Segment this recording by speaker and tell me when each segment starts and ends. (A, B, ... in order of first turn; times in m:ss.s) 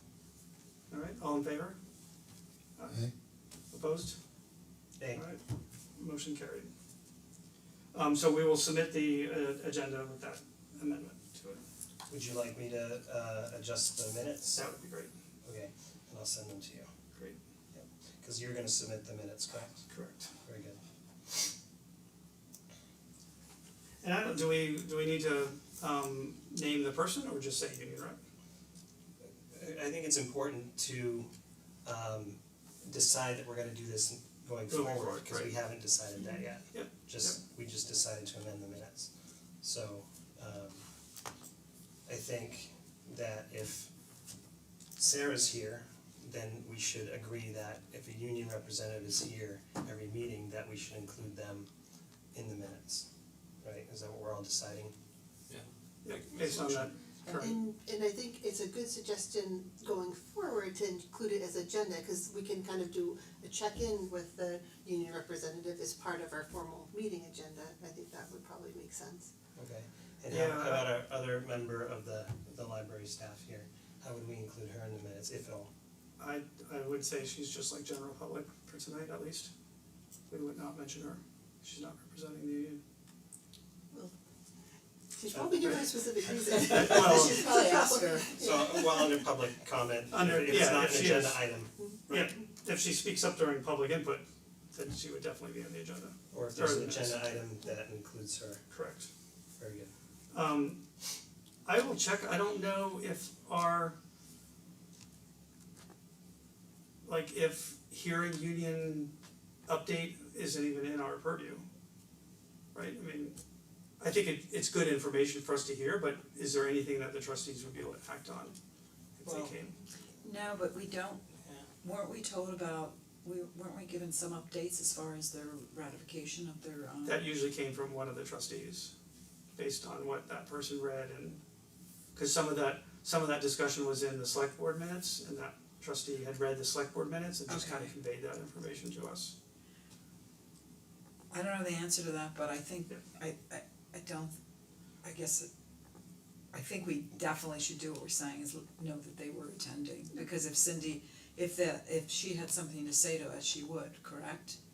0:00.9-0:01.8 A
0:02.8-0:03.1 A
0:03.7-0:04.2 A
0:05.0-0:05.2 B
0:05.1-0:05.4 A
0:06.0-0:06.7 A
0:07.9-0:11.6 A
0:12.1-0:14.7 B
0:14.5-0:15.1 A
0:15.4-0:16.9 B
0:17.7-0:19.8 B
0:19.9-0:20.3 A
0:20.4-0:21.5 B
0:24.0-0:28.2 A
0:29.5-0:31.3 B
0:31.8-0:39.1 B
0:34.7-0:35.6 A
0:36.7-0:37.4 A
0:39.6-0:40.8 B
0:42.1-0:43.9 B
0:45.0-0:51.7 B
0:52.3-0:53.1 B
0:53.6-0:54.9 B
0:56.0-0:57.6 A
0:57.2-1:09.3 C
1:09.6-1:15.7 B
1:10.3-1:10.9 A
1:16.2-1:19.5 A
1:20.3-1:22.8 A
1:25.1-1:29.1 C
1:25.3-1:25.8 B
1:26.6-1:27.5 A
1:27.0-1:28.3 D
1:28.4-1:31.7 B
1:30.1-1:31.5 A
1:31.8-1:32.3 C
1:32.1-1:37.4 A
1:36.3-1:38.6 B
1:38.7-1:39.1 A
1:39.6-1:39.9 B
1:40.3-1:40.8 A
1:41.6-1:44.0 A
1:47.0-1:49.1 A
1:49.7-1:51.6 A
1:52.7-1:53.4 A
1:54.0-1:58.6 A
1:59.2-1:59.8 A
1:59.2-1:59.5 B
2:00.2-2:01.2 D
2:01.8-2:07.2 D
2:07.0-2:08.9 A
2:09.5-2:11.4 A
2:12.1-2:19.3 A
2:17.5-2:17.9 D
2:21.3-2:24.3 D
2:25.0-2:25.5 D
2:26.5-2:34.6 D